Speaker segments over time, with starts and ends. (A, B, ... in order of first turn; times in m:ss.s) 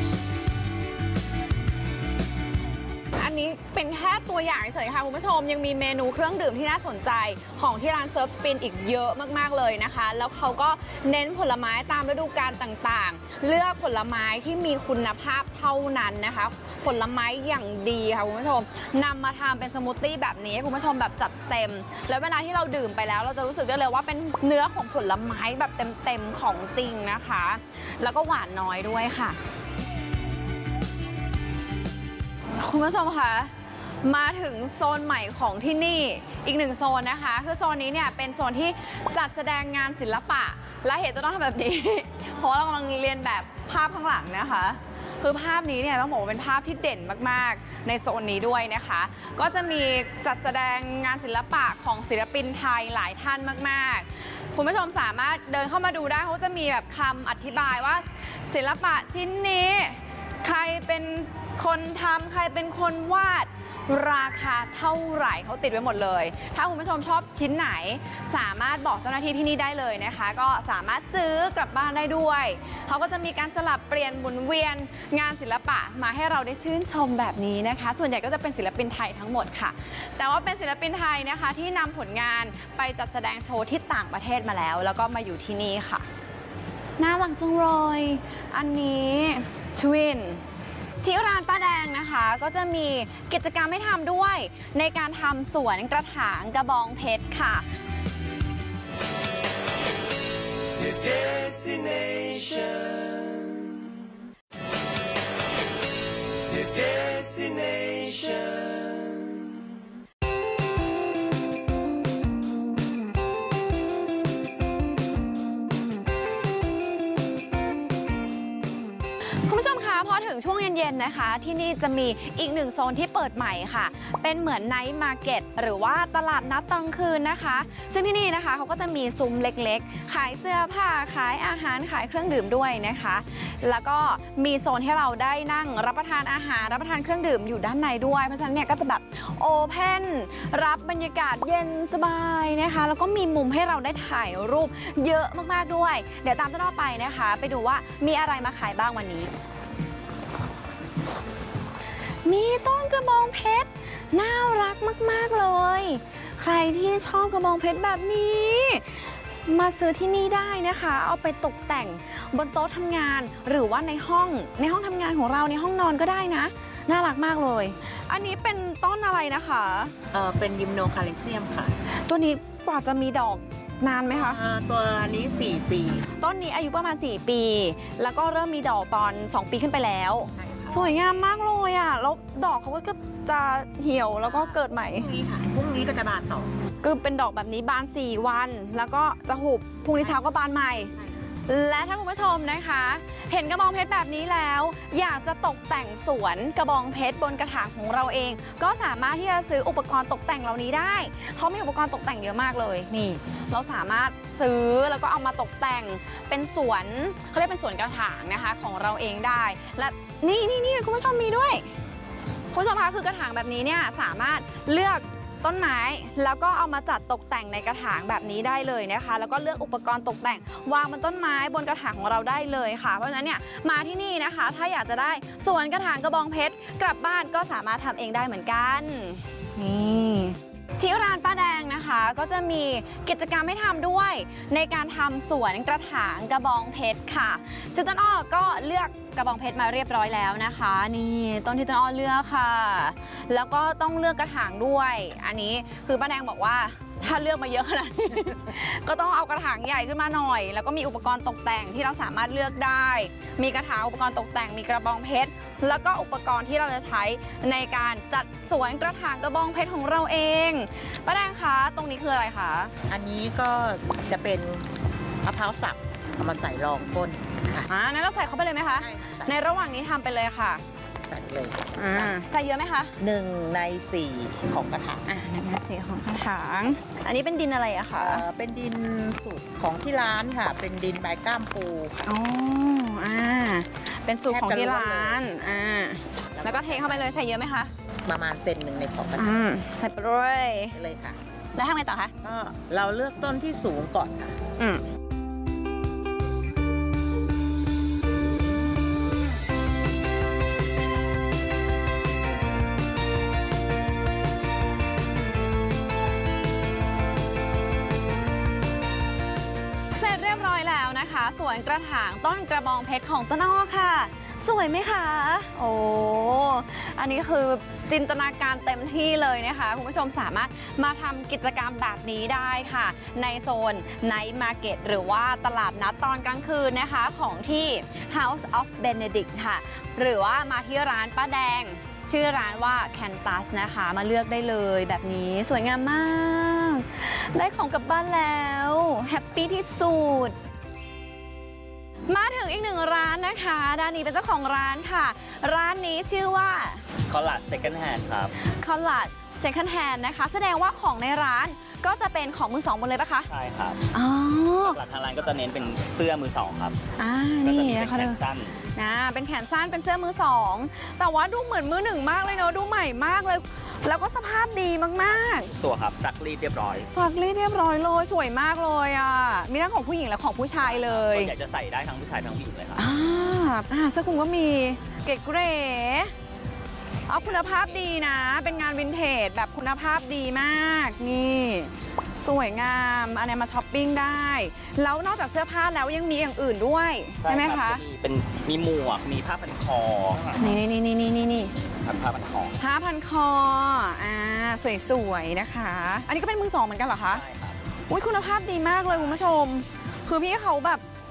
0:03.2-0:29.4 A
0:32.6-0:33.5 A
0:34.0-1:26.1 A
1:27.0-1:30.4 A
1:31.0-1:37.7 A
1:59.5-2:29.3 A
2:32.2-2:39.0 A
2:39.5-2:49.9 A
2:50.1-2:51.7 B
2:52.1-2:54.4 A
2:54.1-2:56.1 B
2:56.2-3:05.1 A
3:00.4-3:00.9 B
3:04.2-3:06.5 B
3:06.8-3:10.9 A
3:11.5-3:31.7 A
3:32.5-4:22.7 A
4:22.9-4:24.7 B
4:25.2-4:27.7 B
4:27.7-4:30.6 A
4:28.7-4:29.4 B
4:31.1-4:32.2 B
4:31.8-4:32.9 A
4:33.0-4:35.0 B
4:35.1-4:38.2 A
4:37.9-4:42.0 B
4:42.1-4:47.7 A
4:44.3-4:45.2 B
4:46.4-4:47.2 B
4:48.0-4:49.4 B
4:49.2-4:50.8 A
4:50.7-4:51.2 B
4:51.6-4:52.1 A
4:52.2-4:54.4 B
5:09.9-5:40.4 A
5:42.1-5:46.8 A
5:47.1-5:48.3 C
5:48.6-5:53.3 A
5:53.3-5:53.8 C
5:53.9-5:54.8 A
5:54.6-5:56.8 C
5:57.0-5:58.2 A
5:57.4-5:58.6 C
5:58.8-6:05.5 A
6:05.1-6:06.9 C
6:06.9-6:11.3 A
6:10.6-6:12.8 C
6:12.8-6:16.1 A
6:17.1-6:27.8 A
6:17.1-6:19.0 C
6:27.2-6:30.4 C
6:30.4-6:31.5 A
6:31.8-6:32.6 C
6:32.6-6:37.2 A
6:37.1-6:37.6 C
6:37.9-6:40.8 A